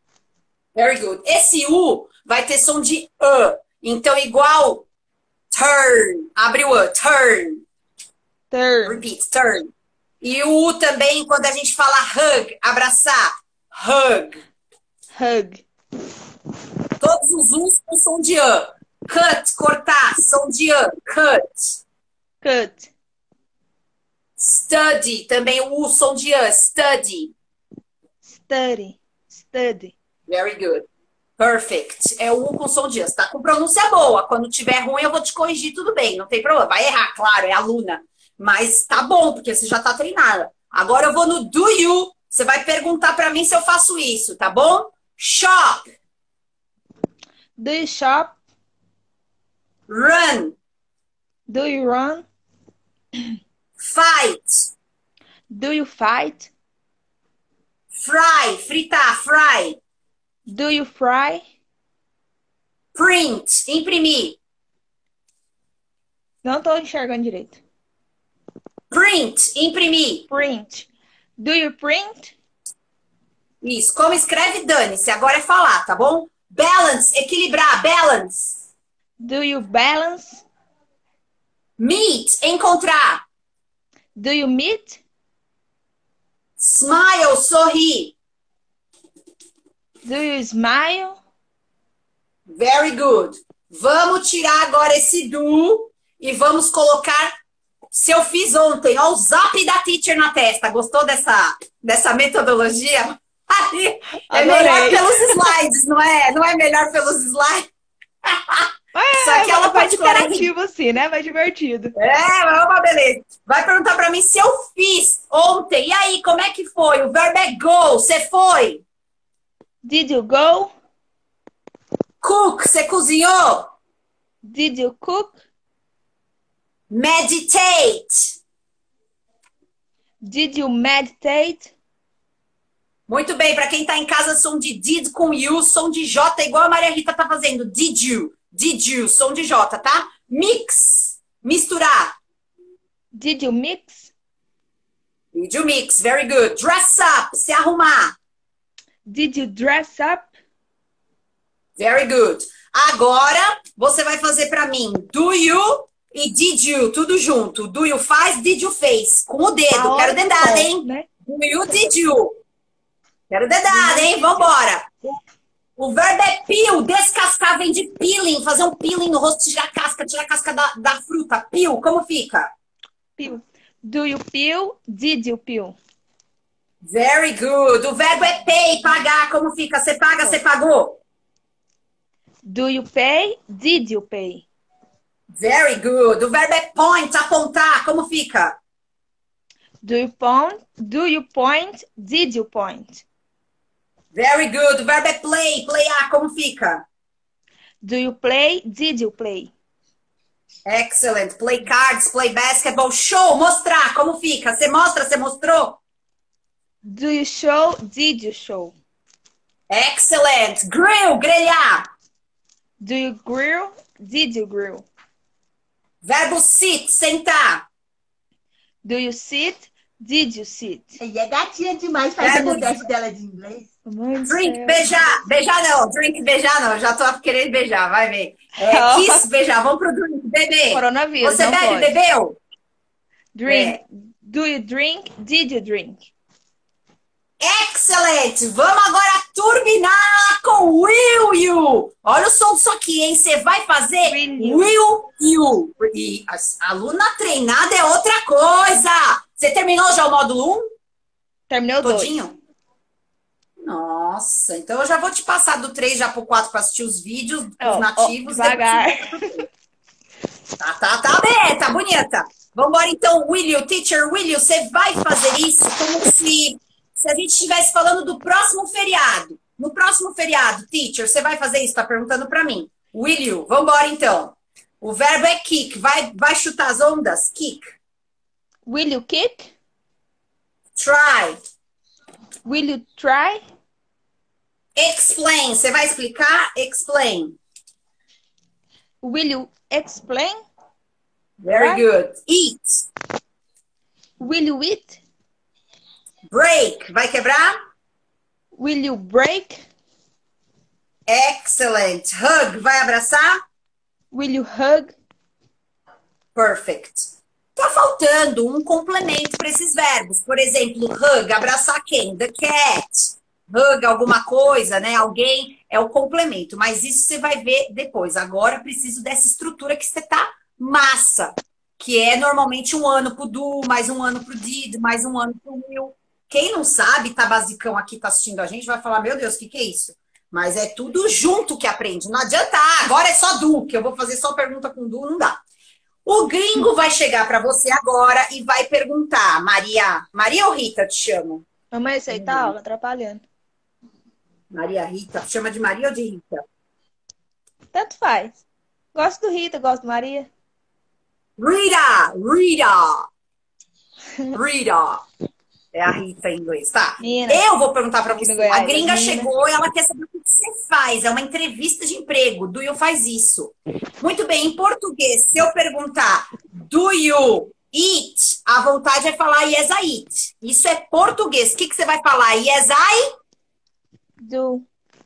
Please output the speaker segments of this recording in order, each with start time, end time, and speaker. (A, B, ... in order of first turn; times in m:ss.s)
0:00.8-0:04.8 A
0:05.5-0:07.6 A
0:08.5-0:09.0 B
0:08.8-0:09.7 A
0:10.2-0:14.4 A
0:15.1-0:15.6 B
0:17.0-0:21.8 A
0:22.4-0:22.9 B
0:24.4-0:27.3 A
0:28.2-0:29.9 B
0:30.3-0:30.8 A
0:31.4-0:45.9 A
0:47.6-0:48.4 B
0:49.9-0:50.5 A
0:51.5-0:52.2 B
0:53.8-0:54.7 A
0:55.5-0:56.5 B
0:57.9-0:59.8 A
1:00.4-1:01.4 B
1:02.9-1:04.4 A
1:06.4-1:07.6 B
1:08.9-1:10.2 A
1:10.3-1:12.3 B
1:13.6-1:18.6 A
1:19.2-1:20.4 B
1:21.8-1:23.2 A
1:24.2-1:25.0 B
1:26.6-1:28.2 A
1:30.0-1:31.2 B
1:32.5-1:37.3 A
1:37.9-1:47.7 A
1:44.3-1:45.5 B
1:48.2-1:50.5 A
1:48.9-1:51.9 B
1:52.0-1:58.8 A
1:59.8-2:00.7 B
2:02.2-2:03.7 A
2:04.4-2:05.4 B
2:06.9-2:08.3 A
2:10.2-2:11.7 B
2:13.1-2:22.2 A
2:23.1-2:24.1 B
2:25.3-2:28.1 A
2:29.0-2:30.3 B
2:31.8-2:42.3 A
2:39.7-2:41.1 B
2:43.3-2:45.2 A
2:43.7-2:44.4 B
2:45.8-2:52.5 A
2:53.2-2:55.8 B
2:56.8-3:01.0 A
3:02.4-3:04.4 B
3:05.3-3:08.6 A
3:09.8-3:13.0 B
3:14.1-3:16.8 A
3:17.8-3:19.5 B
3:20.6-3:25.8 A
3:26.8-3:28.7 B
3:29.7-3:31.9 A
3:32.8-3:34.9 B
3:36.0-3:37.6 A
3:38.8-3:41.0 B
3:41.0-3:43.7 C
3:42.2-3:42.8 A
3:43.8-3:44.8 B
3:44.2-3:52.4 A
3:48.7-3:49.2 B
3:50.7-3:51.9 B
3:53.3-3:56.1 B
3:53.4-3:53.8 A
3:57.4-4:10.6 A
4:04.0-4:04.7 B
4:11.5-4:12.2 B
4:11.8-4:12.4 A
4:13.6-4:19.4 A
4:17.6-4:19.3 B
4:20.6-4:37.6 A
4:38.6-4:39.5 B
4:40.8-4:41.4 A
4:42.4-4:43.4 B
4:44.8-4:47.4 A
4:49.0-4:50.4 B
4:51.4-4:52.8 A
4:51.5-4:51.8 B
4:54.2-4:55.0 B
4:56.3-4:57.5 A
4:58.5-4:59.7 B
5:01.1-5:03.4 A
5:04.1-5:04.9 B
5:06.3-5:35.4 A
5:36.0-5:41.4 A
5:41.7-5:43.2 B
5:42.1-5:42.5 A
5:44.5-5:46.4 A
5:47.7-5:48.4 B
5:48.9-5:50.3 B
5:51.4-5:53.1 A
5:54.3-5:55.0 A
5:55.7-6:13.0 A
5:57.0-5:57.4 B
5:58.2-5:59.3 B
6:14.2-6:14.6 B